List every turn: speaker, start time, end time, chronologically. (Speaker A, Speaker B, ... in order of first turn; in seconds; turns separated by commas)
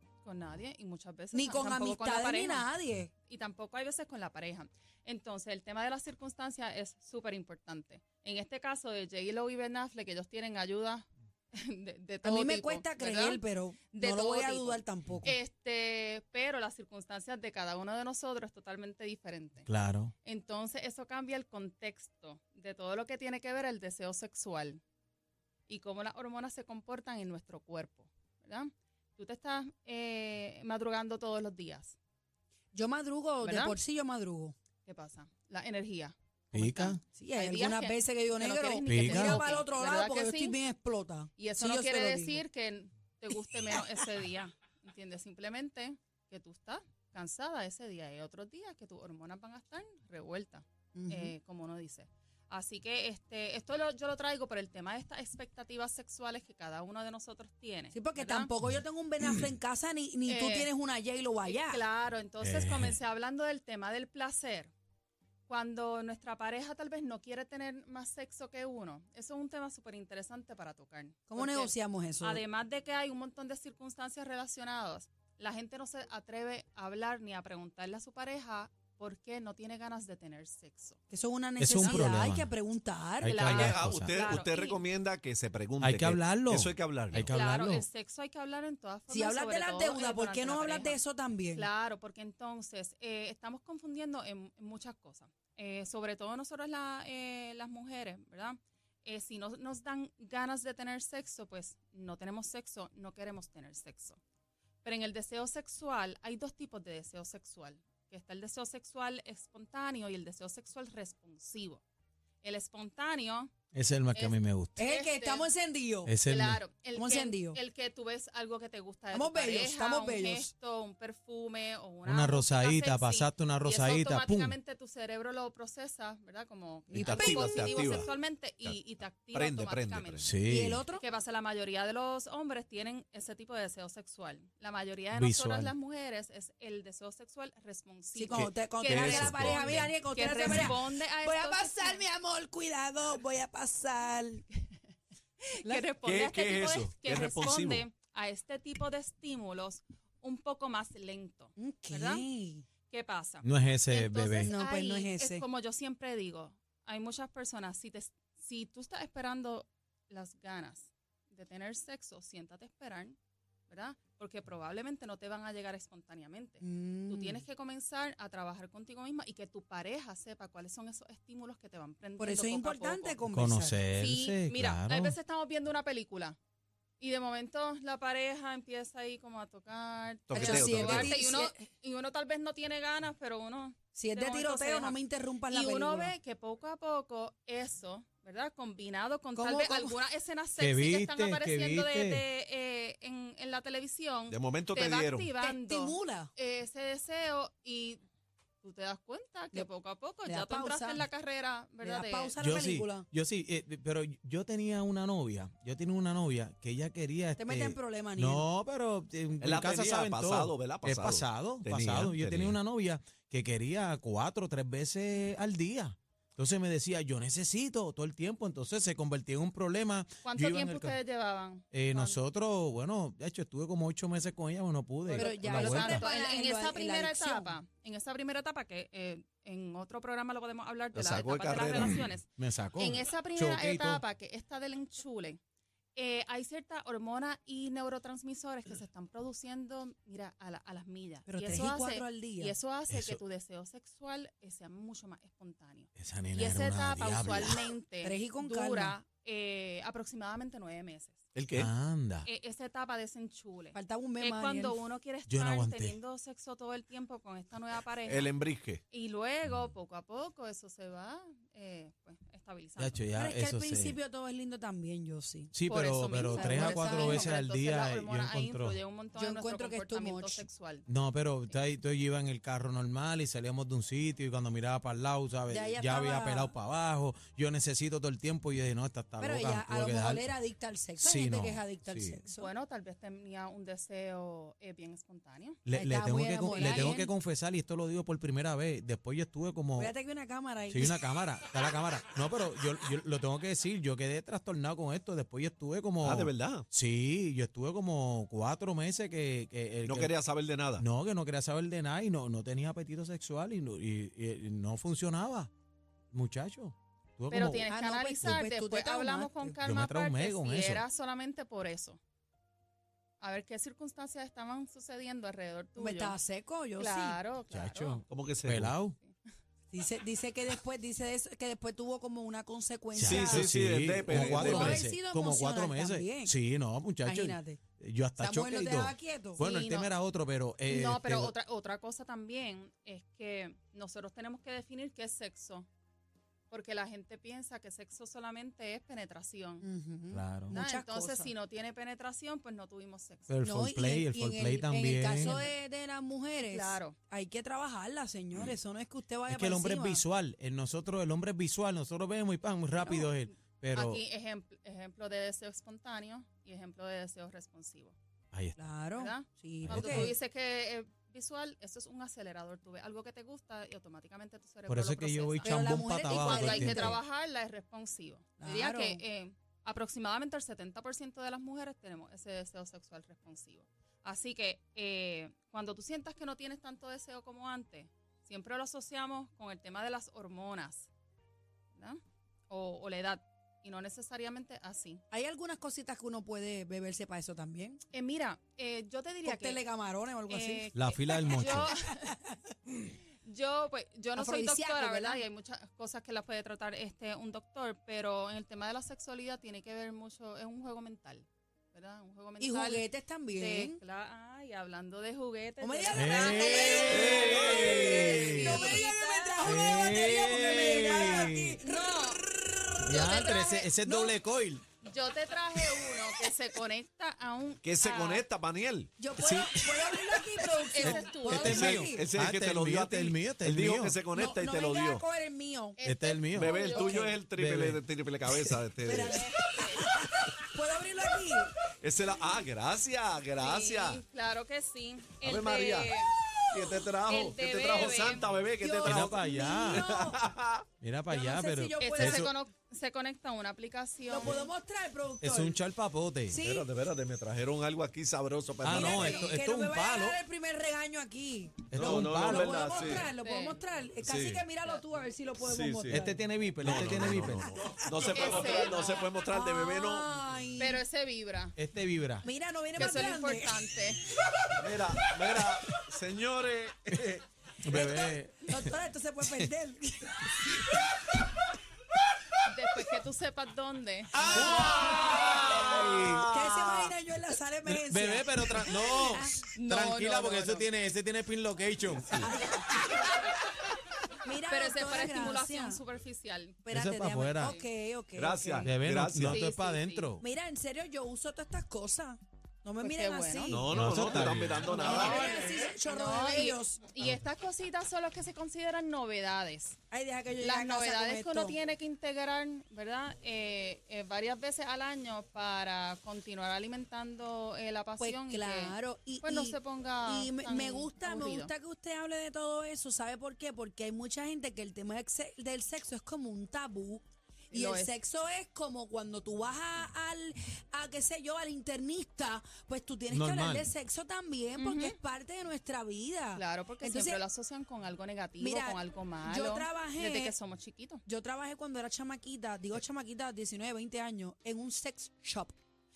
Speaker A: 0.2-2.7, Speaker B: 1.3-3.1, Speaker A: 3.3-19.7, Speaker B: 12.2-15.3, Speaker C: 19.7-20.1, Speaker A: 20.2-24.8, Speaker A: 25.7-32.0, Speaker B: 32.7-34.5, Speaker A: 33.4-33.8, Speaker A: 34.9-40.6, Speaker C: 36.5-37.0, Speaker B: 37.1-42.4, Speaker C: 38.9-39.4, Speaker A: 41.4-58.5, Speaker B: 51.0-51.3, Speaker B: 57.9-61.8, Speaker A: 60.3-60.7, Speaker A: 61.4-64.7, Speaker C: 62.4-63.0, Speaker A: 65.5-81.0, Speaker B: 71.3-72.4, Speaker B: 81.1-83.3, Speaker C: 81.6-82.5, Speaker C: 83.2-84.2, Speaker A: 83.2-84.9, Speaker D: 83.5-87.3, Speaker C: 85.8-87.9, Speaker A: 87.3-91.0, Speaker B: 89.1-91.7, Speaker A: 91.5-104.2, Speaker A: 104.8-111.8, Speaker A: 112.4-113.5, Speaker C: 113.7-114.8, Speaker A: 114.1-115.5, Speaker B: 114.8-116.1, Speaker C: 116.1-116.6, Speaker A: 116.2-130.3, Speaker B: 117.0-117.6, Speaker B: 119.1-120.5, Speaker C: 122.0-124.6, Speaker B: 126.9-127.9, Speaker D: 126.9-128.1, Speaker D: 129.3-130.3, Speaker C: 130.2-130.8, Speaker B: 130.4-131.0, Speaker A: 130.9-142.1, Speaker C: 135.1-135.7, Speaker B: 138.2-144.4, Speaker D: 138.3-139.8, Speaker A: 145.5-152.2, Speaker D: 146.1-147.8, Speaker B: 151.6-152.7, Speaker A: 152.9-163.2, Speaker C: 153.4-154.5, Speaker B: 154.4-155.4, Speaker A: 163.7-173.2, Speaker B: 166.6-167.4, Speaker B: 172.2-173.8, Speaker C: 173.3-175.2, Speaker A: 173.9-176.4, Speaker A: 177.0-198.0, Speaker D: 180.3-181.1, Speaker B: 180.3-181.6, Speaker B: 183.9-186.2, Speaker B: 189.3-189.9, Speaker C: 190.6-192.2, Speaker D: 194.3-195.3, Speaker B: 195.4-196.3, Speaker A: 198.6-202.3, Speaker B: 200.2-201.1, Speaker B: 201.8-203.1, Speaker C: 202.4-221.0, Speaker B: 207.4-208.5, Speaker D: 209.4-212.6, Speaker A: 220.2-222.2, Speaker C: 221.7-226.1, Speaker A: 225.1-235.4, Speaker B: 225.2-227.6, Speaker D: 230.9-232.0, Speaker C: 232.4-234.0, Speaker A: 235.9-251.2, Speaker B: 241.3-242.5, Speaker C: 242.9-243.2, Speaker C: 246.0-247.7, Speaker B: 248.0-249.0, Speaker D: 251.3-251.7, Speaker C: 251.5-252.3, Speaker A: 252.2-258.4, Speaker B: 253.7-254.8, Speaker C: 255.3-256.0, Speaker D: 258.1-258.8, Speaker A: 258.9-263.0, Speaker C: 262.8-264.0, Speaker B: 263.1-265.5, Speaker C: 265.5-268.8, Speaker A: 265.7-270.9, Speaker B: 266.1-267.4, Speaker B: 269.2-270.4, Speaker C: 270.9-280.3, Speaker B: 275.5-276.5, Speaker B: 279.2-282.5, Speaker C: 281.0-282.2, Speaker A: 282.4-285.6, Speaker C: 285.7-289.9, Speaker B: 285.7-287.1, Speaker A: 286.5-287.0, Speaker B: 289.8-291.0, Speaker C: 290.7-300.1, Speaker D: 296.0-296.7, Speaker D: 299.9-300.9, Speaker C: 300.8-305.5, Speaker C: 306.1-307.7, Speaker A: 307.3-312.0, Speaker B: 307.7-309.6, Speaker C: 309.6-310.8, Speaker A: 313.2-316.2, Speaker B: 315.8-317.2, Speaker A: 316.8-318.1, Speaker C: 317.5-319.0, Speaker D: 318.1-318.8, Speaker B: 319.7-323.5, Speaker C: 322.9-331.3, Speaker D: 323.0-324.9, Speaker B: 324.1-326.4, Speaker B: 327.0-327.6, Speaker B: 328.2-329.4, Speaker A: 329.4-329.9, Speaker A: 330.7-335.7, Speaker A: 336.5-339.6, Speaker B: 339.6-341.3, Speaker C: 340.1-340.6, Speaker A: 340.5-343.3, Speaker C: 343.3-345.4, Speaker B: 343.4-350.0, Speaker A: 345.2-345.5, Speaker A: 346.4-347.0, Speaker C: 349.3-354.0, Speaker A: 352.8-358.0, Speaker C: 358.3-358.6, Speaker B: 358.6-360.1, Speaker A: 359.0-380.9, Speaker C: 359.6-360.1, Speaker C: 364.7-367.0, Speaker B: 365.4-367.0, Speaker B: 368.4-369.0, Speaker A: 381.8-385.0, Speaker B: 385.1-387.8, Speaker A: 387.9-389.6, Speaker B: 389.2-390.7, Speaker A: 390.3-392.0, Speaker C: 390.8-391.7, Speaker B: 391.4-392.1, Speaker A: 393.2-411.1, Speaker B: 394.1-395.2, Speaker B: 402.4-403.8, Speaker B: 405.6-411.6, Speaker C: 405.9-408.8, Speaker D: 406.6-408.8, Speaker C: 409.4-411.6, Speaker A: 411.6-412.2, Speaker C: 412.8-414.6, Speaker A: 412.9-413.6, Speaker B: 413.8-414.2, Speaker A: 414.8-418.3, Speaker D: 417.6-419.7, Speaker B: 419.0-422.1, Speaker A: 420.7-421.7, Speaker C: 420.8-424.0, Speaker D: 421.4-425.0, Speaker B: 424.1-425.8, Speaker A: 425.8-427.2, Speaker C: 425.8-426.6, Speaker D: 426.3-429.3, Speaker B: 426.8-427.1, Speaker C: 427.4-427.8, Speaker B: 428.8-431.5, Speaker A: 429.1-429.8, Speaker D: 431.8-434.0, Speaker A: 433.4-436.1, Speaker D: 435.2-436.0, Speaker D: 436.5-440.6, Speaker A: 437.1-438.3, Speaker B: 438.6-440.2, Speaker C: 438.8-439.9, Speaker C: 440.8-442.3, Speaker B: 441.1-442.3, Speaker A: 441.8-444.4, Speaker B: 444.1-445.6, Speaker C: 445.2-446.4, Speaker B: 446.3-446.7, Speaker D: 446.4-449.4, Speaker C: 448.6-450.2, Speaker B: 448.7-456.2, Speaker C: 451.7-452.6, Speaker D: 451.7-453.1, Speaker A: 452.6-453.6, Speaker D: 454.0-454.4, Speaker D: 455.4-456.0, Speaker C: 455.9-457.6, Speaker D: 456.6-460.1, Speaker B: 457.4-457.8, Speaker A: 458.0-459.1, Speaker B: 459.3-460.8, Speaker A: 460.6-461.6, Speaker C: 461.6-462.3, Speaker B: 462.2-463.6, Speaker A: 462.8-464.0, Speaker D: 464.6-467.2, Speaker C: 467.6-468.8, Speaker B: 467.7-470.6, Speaker A: 472.4-474.4, Speaker C: 474.2-476.3, Speaker D: 474.2-476.9, Speaker B: 476.0-479.4, Speaker C: 477.6-482.7, Speaker A: 479.5-480.7, Speaker B: 484.2-485.8, Speaker A: 484.5-486.6, Speaker B: 486.6-488.7, Speaker C: 486.7-487.6, Speaker A: 487.4-487.7, Speaker D: 488.2-489.4, Speaker C: 488.6-490.2, Speaker A: 489.2-490.1, Speaker B: 490.2-493.7, Speaker A: 492.8-499.8, Speaker D: 493.5-495.3, Speaker C: 493.7-494.8, Speaker B: 494.6-496.8, Speaker B: 499.9-501.6, Speaker A: 500.4-511.5, Speaker B: 508.0-527.2, Speaker A: 517.5-518.0, Speaker C: 523.1-523.7, Speaker A: 524.6-525.0, Speaker A: 526.4-531.0, Speaker B: 528.4-530.3, Speaker B: 531.0-535.6